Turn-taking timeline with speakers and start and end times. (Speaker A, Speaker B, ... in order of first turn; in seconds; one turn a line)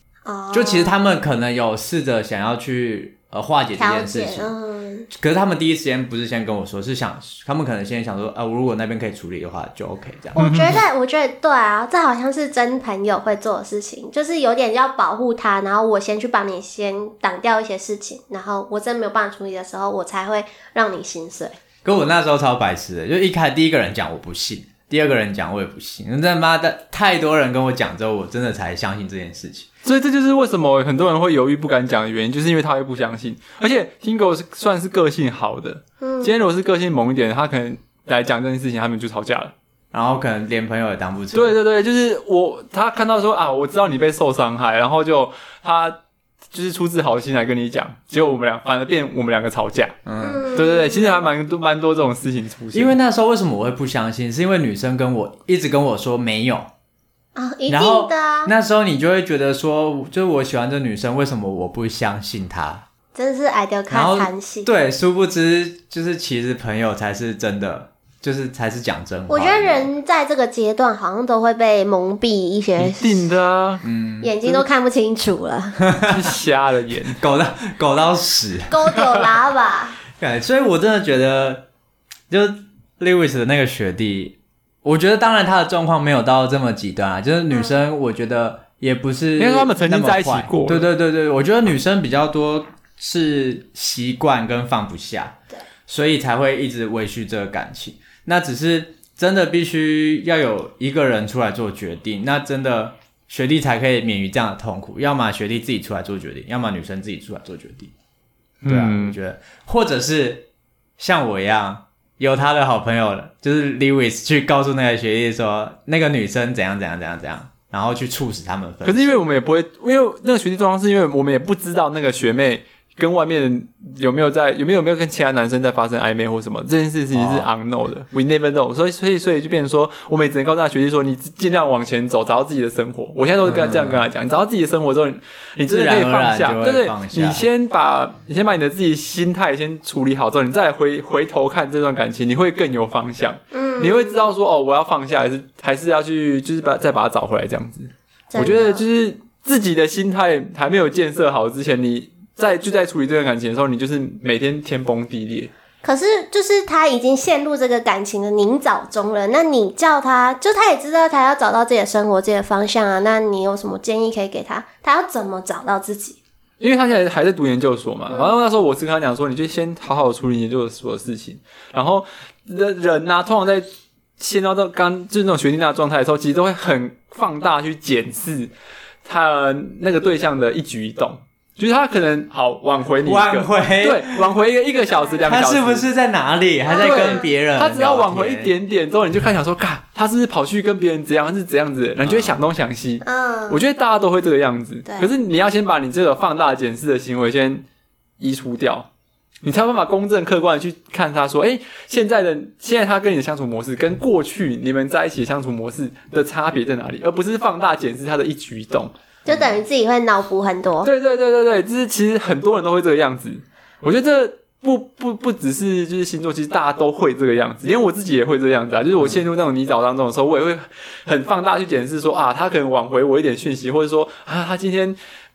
Speaker A: 0.2-1.0
Speaker B: 0.5-4.5
Speaker A: 3.8-5.1
Speaker B: 5.1-10.4
Speaker A: 10.4-21.6
Speaker C: 10.4-10.8
Speaker B: 21.8-29.7
Speaker C: 29.8-39.5
Speaker A: 36.0-36.3
Speaker B: 39.9-41.6
Speaker C: 41.3-46.0
Speaker C: 46.5-50.0
Speaker B: 50.1-50.5
Speaker A: 50.2-51.3
Speaker C: 50.5-53.0
Speaker B: 52.7-56.7
Speaker A: 57.4-58.5
Speaker B: 57.7-62.9
Speaker A: 63.1-64.7
Speaker B: 63.9-69.9
Speaker A: 69.3-73.2
Speaker C: 72.8-73.8
Speaker B: 73.8-74.3
Speaker A: 74.2-75.8
Speaker B: 75.8-76.2
Speaker C: 76.1-77.2
Speaker B: 77.2-78.9
Speaker A: 78.7-80.0
Speaker B: 80.2-81.7
Speaker B: 82.3-107.9
Speaker A: 87.5-87.8
Speaker C: 89.4-90.9
Speaker C: 108.6-109.2
Speaker B: 108.7-110.5
Speaker B: 111.0-119.1
Speaker C: 118.8-155.5
Speaker B: 127.1-127.5
Speaker B: 133.4-134.1
Speaker B: 135.7-137.4
Speaker A: 143.5-144.3
Speaker A: 148.3-148.8
Speaker A: 155.8-166.2
Speaker C: 166.6-178.5
Speaker C: 179.0-185.9
Speaker B: 183.0-184.2
Speaker A: 184.9-185.2
Speaker B: 185.2-188.5
Speaker A: 186.7-187.3
Speaker C: 186.8-197.7
Speaker B: 192.0-192.4
Speaker A: 193.0-193.6
Speaker C: 198.2-198.9
Speaker C: 199.4-208.9
Speaker A: 209.2-210.9
Speaker B: 209.3-209.6
Speaker C: 210.8-225.0